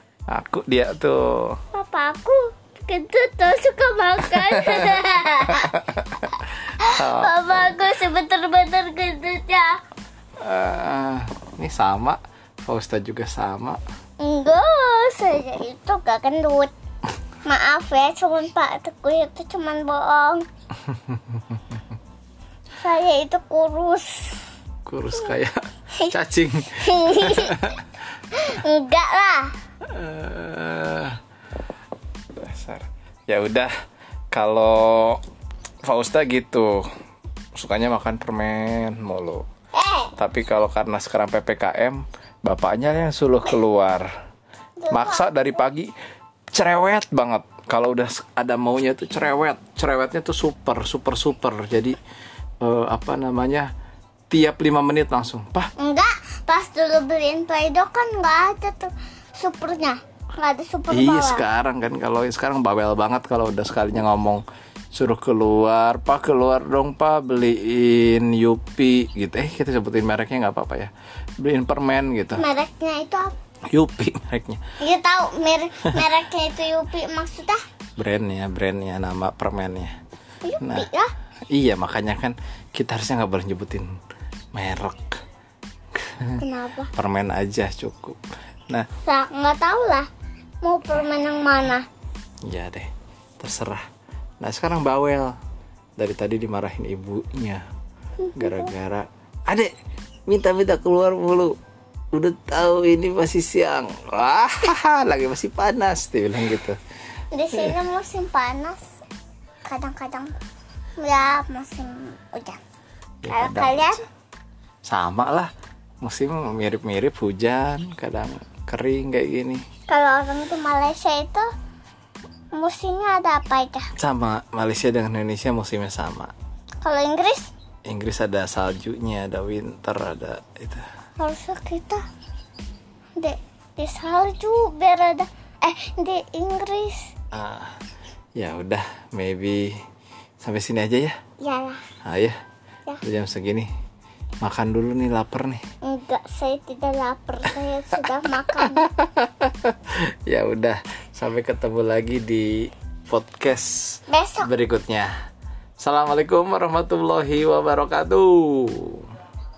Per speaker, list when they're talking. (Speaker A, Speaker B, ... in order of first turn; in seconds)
Speaker A: 0.3-1.6, 4.3-6.3, 6.8-7.9, 10.4-13.8, 24.9-27.8, 29.9-31.2, 32.3-33.7, 34.3-35.2, 35.8-36.9, 37.5-39.4, 40.2-44.1, 44.9-45.9, 46.5-52.0, 52.6-53.7, 54.3-55.7, 60.9-72.4, 73.7-74.6, 78.0-80.0, 80.6-80.9, 81.5-83.9, 84.5-85.2, 85.9-86.4, 86.9-88.9, 92.4-92.9, 93.4-93.8, 94.4-95.4, 96.0-97.6, 98.3-99.7, 100.3-101.6, 102.1-106.8, 113.2-114.0, 114.8-115.5, 116.0-119.6, 124.0-126.3, 127.9-130.8, 137.3-137.8, 138.4-139.8, 140.4-141.2, 142.1-142.4, 143.0-143.7, 144.4-145.6, 148.1-155.1, 155.8-159.1
Speaker B: 1.7-5.8, 6.7-9.7, 14.2-16.7, 17.4-20.4, 22.8-24.4, 26.7-27.7, 28.3-29.5, 39.7-40.1, 44.8-45.6, 55.8-61.5, 72.3-73.3, 74.8-77.6, 80.4-81.1, 86.4-86.9, 89.0-90.1, 90.6-91.9, 98.2-98.7, 107.3-108.8, 109.6-110.3, 111.0-112.6, 113.2-114.0, 119.9-121.5, 122.5-123.9, 126.8-127.5, 131.2-132.0, 133.2-137.1, 141.4-141.8, 145.8-148.9, 154.1-154.5